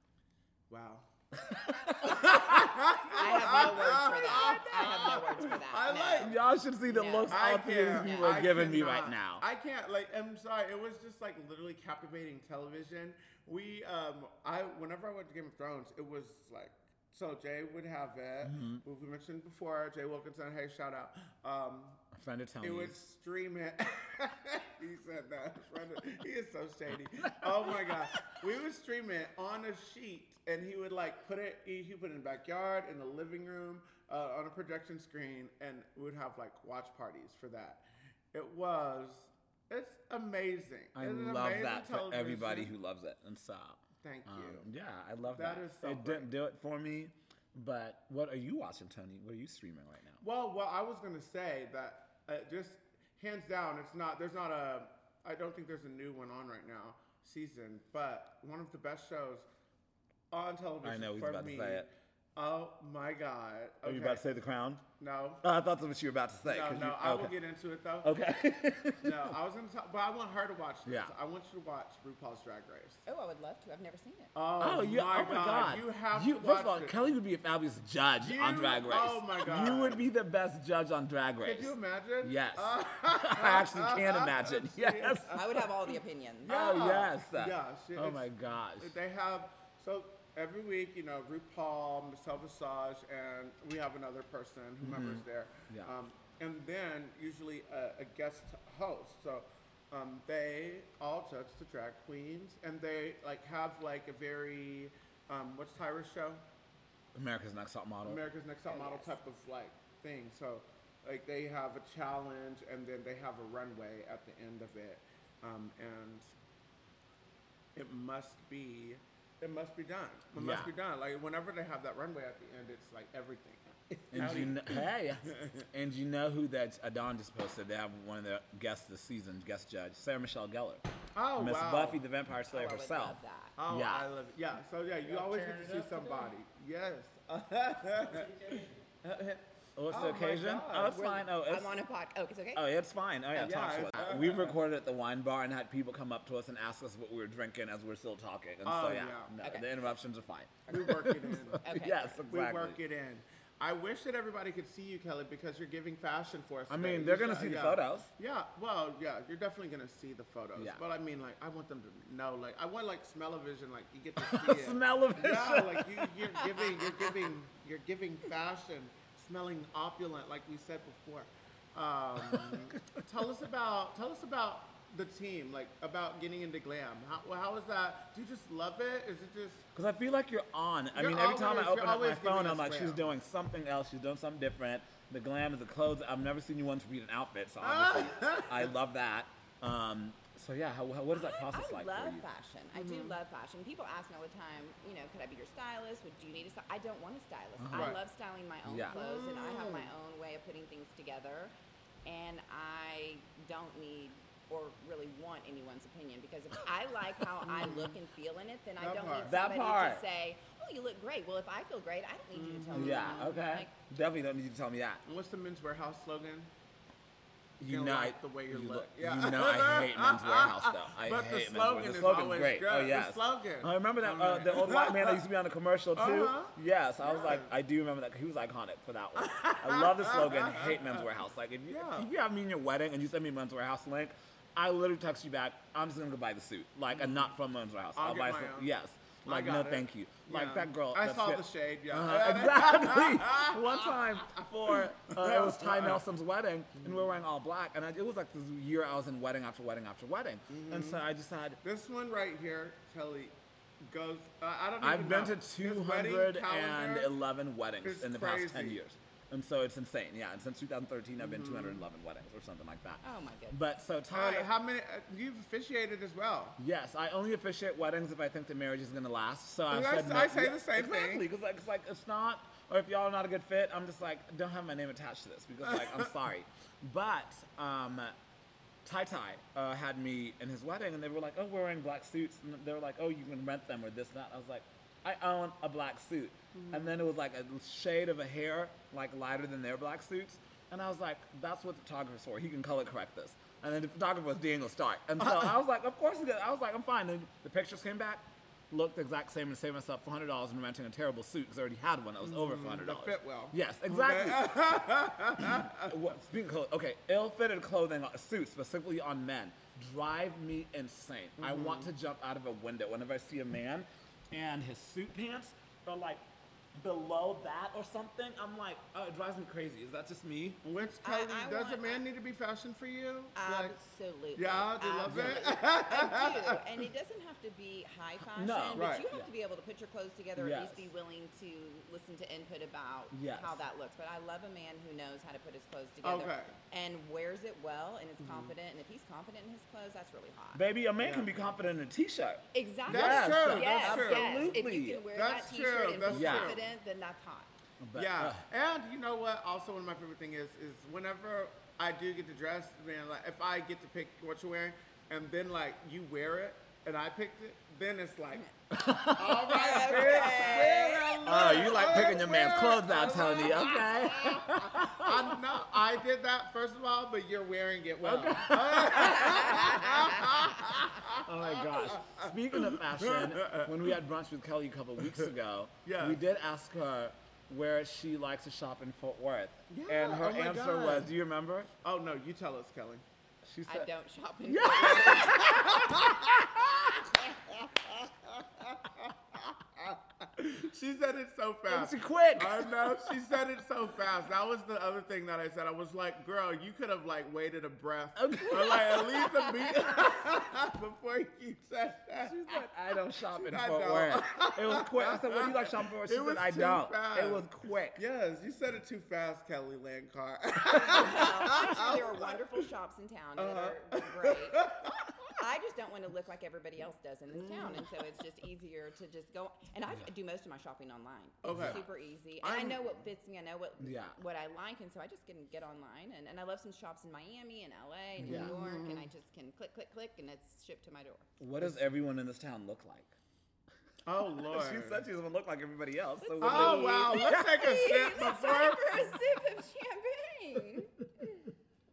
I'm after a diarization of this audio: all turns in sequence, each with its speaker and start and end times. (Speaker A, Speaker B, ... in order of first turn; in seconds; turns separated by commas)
Speaker A: 0.7-1.1, Speaker B: 1.4-3.6, Speaker A: 1.8-6.4, Speaker C: 3.1-6.3, Speaker B: 6.2-9.4, Speaker C: 6.8-7.4, Speaker A: 7.3-22.1, Speaker C: 7.9-8.5, Speaker B: 18.4-18.8, Speaker B: 22.1-22.9, Speaker A: 22.6-42.7, Speaker B: 27.2-28.4, Speaker B: 40.9-50.2, Speaker A: 44.0-44.7, Speaker A: 45.3-46.3, Speaker A: 50.2-59.5, Speaker A: 60.3-64.2, Speaker B: 60.8-61.9, Speaker B: 63.8-64.8, Speaker A: 65.0-65.4, Speaker B: 65.4-67.3, Speaker A: 66.4-68.1, Speaker B: 68.0-69.3, Speaker A: 69.0-73.0, Speaker B: 70.8-71.1, Speaker C: 73.0-74.3, Speaker A: 74.3-77.0, Speaker B: 74.6-85.4, Speaker A: 78.2-80.0, Speaker A: 81.4-85.9, Speaker C: 85.3-86.7, Speaker A: 86.5-106.4, Speaker B: 86.5-89.0, Speaker B: 94.8-95.9, Speaker B: 107.1-108.2, Speaker A: 108.0-116.3, Speaker C: 108.7-109.2, Speaker A: 117.7-125.6, Speaker B: 120.4-120.7, Speaker B: 124.1-130.8, Speaker A: 131.1-132.0, Speaker B: 131.4-134.1, Speaker C: 132.5-133.5, Speaker A: 133.6-141.2, Speaker B: 139.8-141.8, Speaker C: 141.4-142.6, Speaker B: 142.5-152.8, Speaker A: 143.3-144.6, Speaker A: 148.6-149.3, Speaker A: 150.7-151.6, Speaker C: 151.6-152.2, Speaker A: 152.3-179.6, Speaker B: 156.7-158.1, Speaker B: 160.5-160.8, Speaker B: 164.2-167.3, Speaker B: 172.2-173.0, Speaker B: 179.7-192.2, Speaker A: 180.9-183.0, Speaker A: 187.6-188.7, Speaker C: 191.1-201.5, Speaker A: 192.7-193.2, Speaker B: 197.6-198.0, Speaker A: 197.7-198.0, Speaker B: 198.7-199.0, Speaker A: 198.9-199.9, Speaker C: 202.1-213.7, Speaker A: 207.4-207.9, Speaker A: 208.8-209.3, Speaker B: 209.2-210.0, Speaker A: 212.3-213.4, Speaker B: 212.7-215.0, Speaker A: 215.0-216.5, Speaker B: 217.6-251.6, Speaker A: 217.6-225.2, Speaker A: 225.9-227.5, Speaker A: 229.2-231.0, Speaker A: 231.7-232.1, Speaker A: 236.9-237.3, Speaker A: 237.9-238.7, Speaker A: 239.2-246.0, Speaker A: 246.8-247.1, Speaker A: 250.5-251.0, Speaker A: 251.6-257.1, Speaker B: 254.8-264.5, Speaker A: 257.8-258.8, Speaker A: 261.2-261.8, Speaker C: 263.0-263.6, Speaker A: 264.1-266.6, Speaker B: 266.6-278.1, Speaker A: 269.7-271.3, Speaker B: 278.8-304.6, Speaker A: 286.5-286.9, Speaker A: 302.2-305.9, Speaker B: 305.4-320.6, Speaker A: 311.4-311.9, Speaker A: 320.6-323.8, Speaker C: 321.0-322.0, Speaker C: 323.4-340.6, Speaker A: 324.3-326.6, Speaker B: 325.1-325.4, Speaker B: 328.3-329.3, Speaker A: 328.7-329.1, Speaker B: 330.4-330.9, Speaker B: 333.1-333.6, Speaker A: 336.0-336.6, Speaker A: 338.2-338.5, Speaker B: 340.5-345.0, Speaker A: 341.0-341.3, Speaker C: 342.5-347.5, Speaker A: 342.9-344.6, Speaker A: 345.1-346.7, Speaker B: 346.1-346.6, Speaker B: 347.8-348.4, Speaker A: 347.9-358.5, Speaker B: 358.7-365.4, Speaker A: 359.1-373.9, Speaker C: 359.5-361.7, Speaker B: 368.0-381.7, Speaker C: 369.0-370.6, Speaker A: 375.8-376.2, Speaker A: 379.7-381.1, Speaker A: 381.8-383.0, Speaker B: 383.4-383.9, Speaker C: 383.7-385.8, Speaker B: 384.5-387.1, Speaker A: 385.1-386.2, Speaker A: 387.6-402.4, Speaker B: 391.7-393.1, Speaker B: 398.1-399.7, Speaker B: 402.2-408.0, Speaker A: 403.3-412.6, Speaker C: 410.6-414.7, Speaker A: 413.4-415.3, Speaker C: 415.3-431.3, Speaker A: 417.3-418.1, Speaker A: 421.4-421.8, Speaker B: 421.5-421.8, Speaker A: 422.4-423.0, Speaker B: 423.8-424.2, Speaker A: 428.2-429.1, Speaker B: 428.2-428.5, Speaker B: 431.4-433.1, Speaker A: 434.1-435.1, Speaker B: 434.4-437.6, Speaker C: 436.2-441.5, Speaker A: 436.4-439.2